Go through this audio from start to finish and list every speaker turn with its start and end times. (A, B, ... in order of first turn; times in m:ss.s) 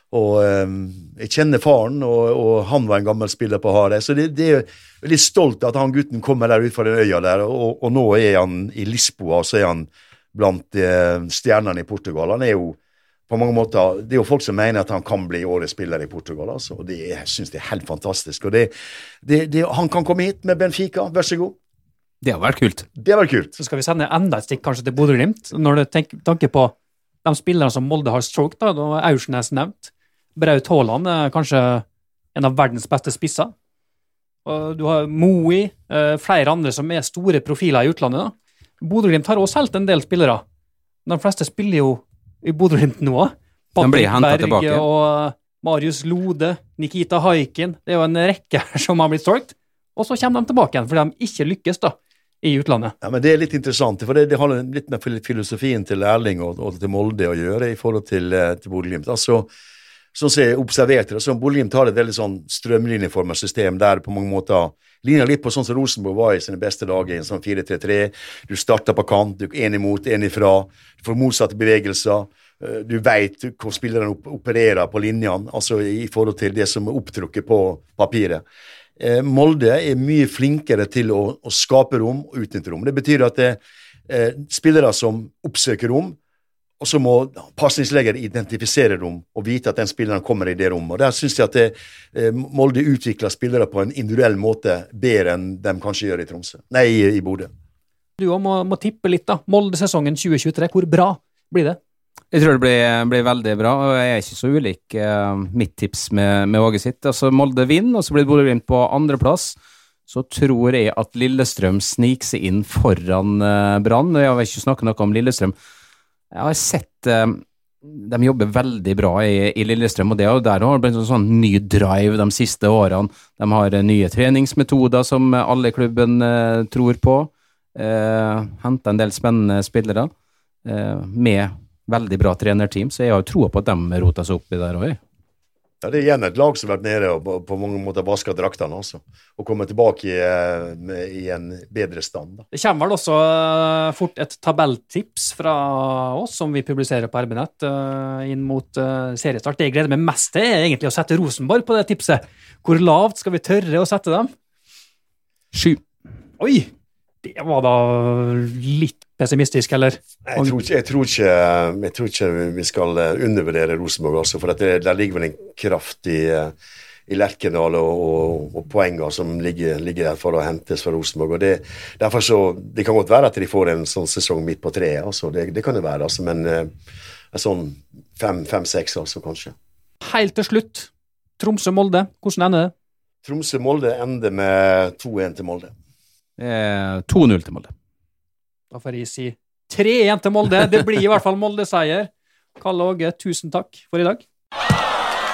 0:00.1-0:12.8 A
0:13.3-0:18.7 A
0:19.2-0:21.6 A
0:22.2-0:22.8 B
0:23.0-0:23.6 A
0:23.6-0:26.7 C
0:27.2-0:33.5 C
0:34.4-0:40.4 C
0:41.0-0:52.9 C
0:43.8-0:44.8 B
0:53.0-0:59.5 A
1:00.1-1:18.4 A
1:19.0-1:26.2 A
1:26.8-1:37.5 A
1:38.2-1:41.8 C
1:42.3-1:49.6 B
1:50.1-1:55.5 B
1:56.3-2:10.1 B
2:10.6-2:15.0 B
2:15.8-2:22.4 A
2:22.5-2:34.3 C
2:35.5-2:35.8 B
2:36.4-2:36.7 C
2:37.2-2:40.5 C
2:40.2-2:46.5 A
2:47.1-2:56.7 A
2:57.3-2:59.5 A
3:00.0-3:02.7 C
3:03.2-3:05.7 A
3:06.4-3:07.7 B
3:08.7-3:14.2 C